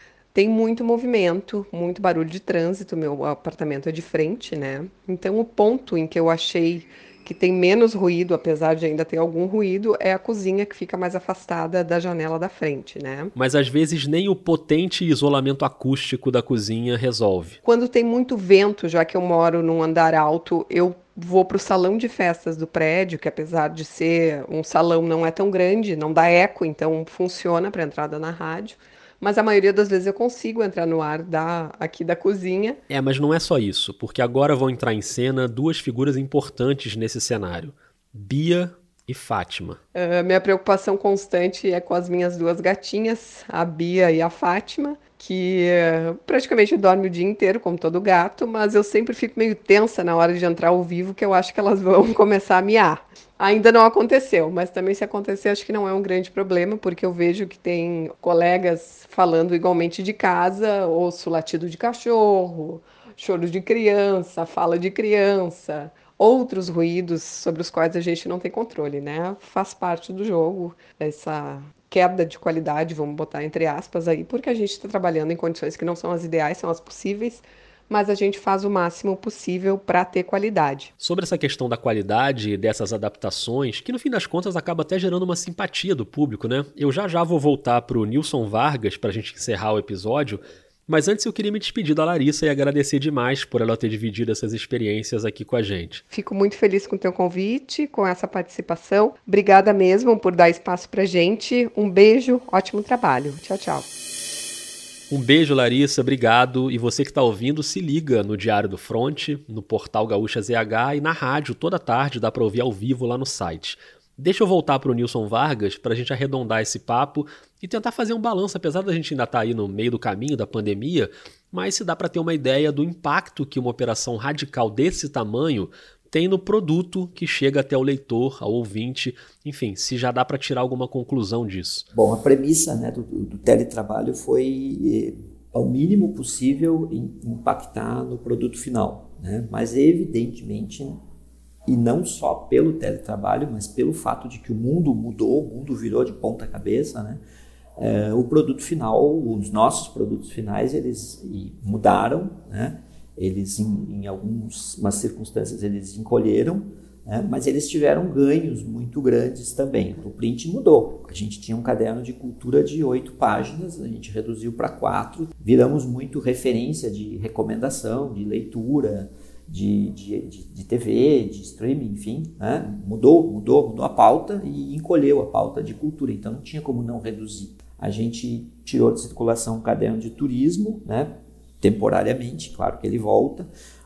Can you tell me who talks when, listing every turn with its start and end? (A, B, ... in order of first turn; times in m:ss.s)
0:00.3-0:13.3 A
0:13.3-0:17.6 B
0:17.6-0:32.8 A
0:32.9-0:39.8 B
0:39.9-1:20.9 A
1:21.0-1:36.0 B
1:36.1-1:43.9 A
1:45.1-2:11.8 B
2:11.9-2:21.0 C
2:21.6-2:27.2 C
2:27.8-3:03.5 C